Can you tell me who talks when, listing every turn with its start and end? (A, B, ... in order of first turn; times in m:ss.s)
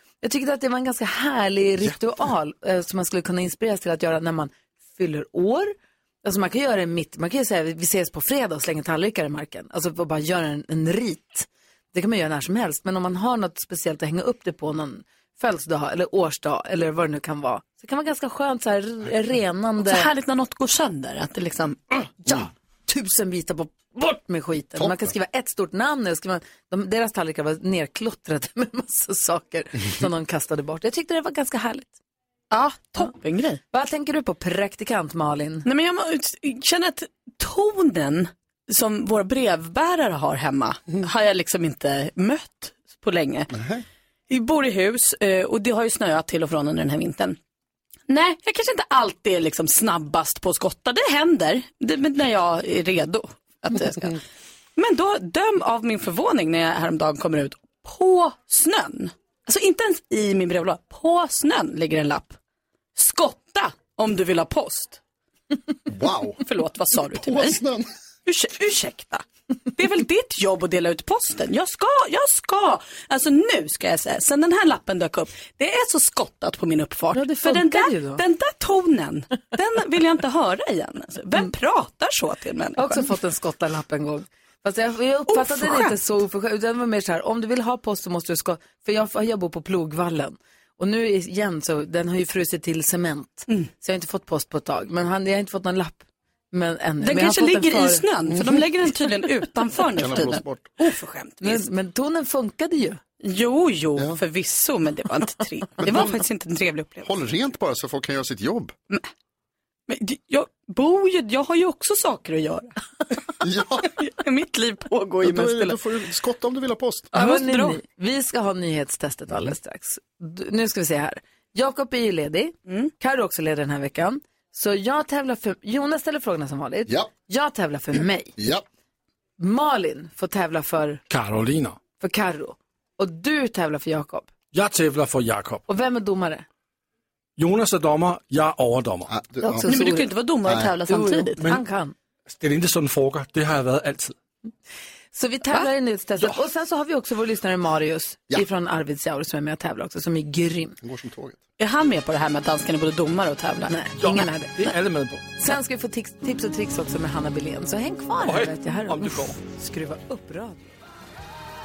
0:00.2-0:20.1 A
0:19.8-0:22.1 B
0:22.2-0:31.9 A
0:24.8-0:25.1 C
0:32.5-0:33.6 B
0:33.7-0:35.6 A
0:35.6-0:43.5 B
0:43.5-0:43.8 C
0:44.3-0:47.4 B
0:48.1-0:54.2 B
0:54.8-1:02.4 B
1:02.9-1:05.0 B
1:05.9-1:06.4 C
1:06.4-1:07.6 B
1:07.0-1:07.9 C
1:08.2-1:23.1 B
1:17.1-1:18.2 A
1:22.8-1:38.0 A
1:25.3-1:26.0 B
1:37.0-1:41.6 B
1:38.3-1:38.6 C
1:39.9-1:40.7 C
1:41.4-1:43.0 A
1:43.2-1:47.1 B
1:45.8-1:46.2 C
1:47.0-1:48.7 C
1:49.9-1:52.7 B
1:53.4-1:53.9 C
1:53.9-1:55.8 B
1:55.2-1:57.1 C
1:57.1-1:57.8 B
1:57.1-2:08.3 A
2:02.7-2:02.9 B
2:08.4-2:08.6 C
2:09.4-2:11.0 A
2:11.1-2:11.8 D
2:12.0-2:14.2 A
2:14.5-2:15.6 D
2:15.7-2:16.4 A
2:17.4-2:19.1 D
2:19.1-2:19.8 C
2:19.4-2:20.2 A
2:19.6-2:21.5 B
2:20.4-2:20.8 C
2:20.9-2:21.9 A
2:22.4-2:24.1 D
2:25.1-2:30.7 A
2:30.8-2:31.4 C
2:31.6-2:33.8 B
2:33.7-2:34.5 A
2:34.0-2:35.2 D
2:35.4-2:40.6 A
2:38.2-2:39.4 D